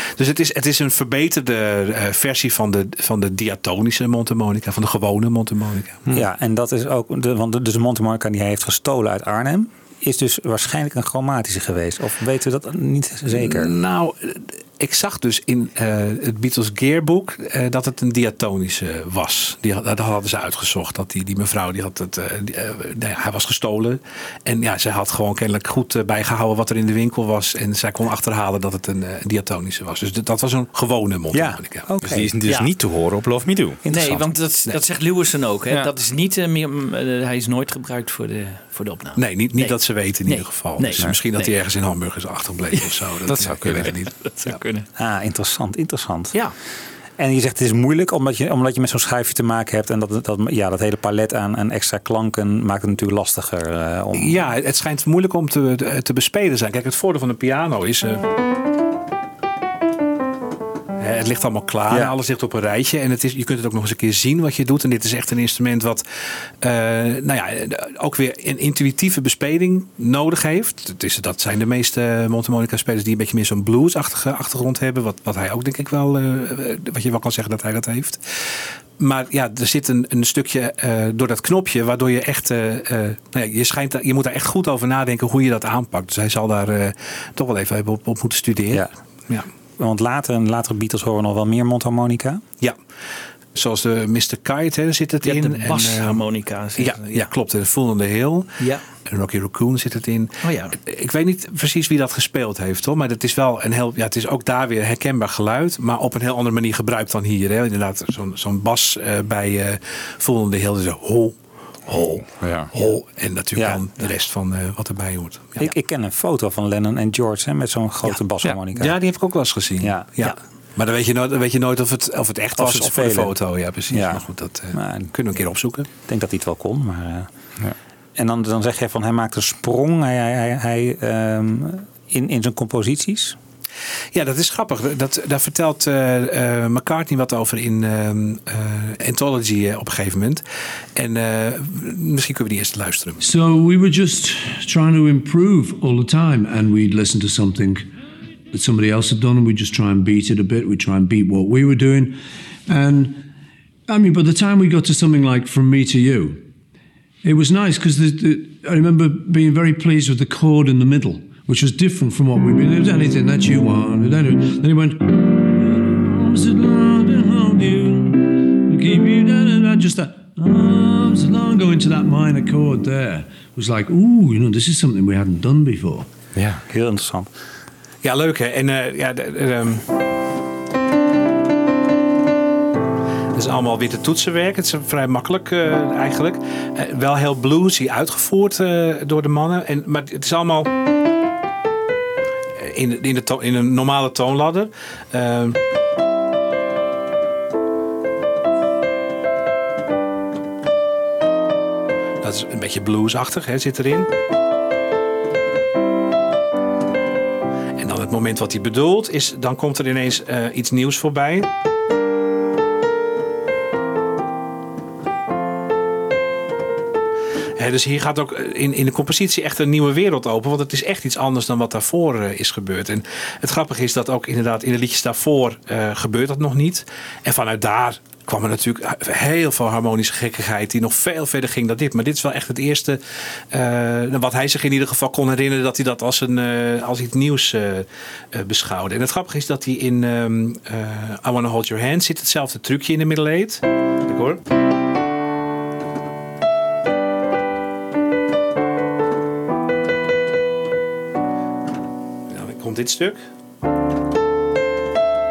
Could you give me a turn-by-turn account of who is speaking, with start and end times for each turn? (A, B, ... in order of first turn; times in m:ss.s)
0:00.2-0:06.0 A
0:06.1-0:13.7 B
0:13.4-0:31.9 A
0:31.3-0:32.3 B
0:32.0-0:34.1 C
0:33.9-0:41.5 D
0:39.2-0:44.6 A
0:43.3-0:43.9 C
0:44.3-0:44.9 D
0:45.0-0:46.4 B
0:47.2-0:54.4 B
0:54.2-0:58.2 A
1:01.0-1:06.0 A
1:01.9-1:02.2 B
1:06.6-1:18.2 A
1:19.0-1:29.5 A
1:29.8-1:32.4 B
1:33.6-1:36.2 A
1:35.2-1:37.2 D
1:36.8-1:55.7 A
1:40.4-1:40.8 D
1:52.4-1:52.7 C
1:53.6-1:53.8 B
1:55.6-1:59.0 B
1:58.7-2:05.9 A
1:59.8-2:00.1 B
2:02.6-2:03.4 B
2:03.9-2:05.1 B
2:06.1-2:07.3 B
2:08.2-2:13.4 B
2:14.1-2:20.4 A
2:21.0-2:23.2 A
2:23.2-2:27.9 E
2:28.5-2:33.3 E
2:33.9-2:36.4 E
2:37.2-2:56.1 E
2:56.4-2:56.6 C
2:56.7-2:57.3 B
2:58.0-2:59.9 A
3:03.3-3:10.7 A
3:12.6-3:15.6 A
3:22.2-3:24.1 A
3:27.8-3:31.5 A
3:37.6-3:53.0 A
3:53.5-4:04.4 A
4:12.3-4:13.2 A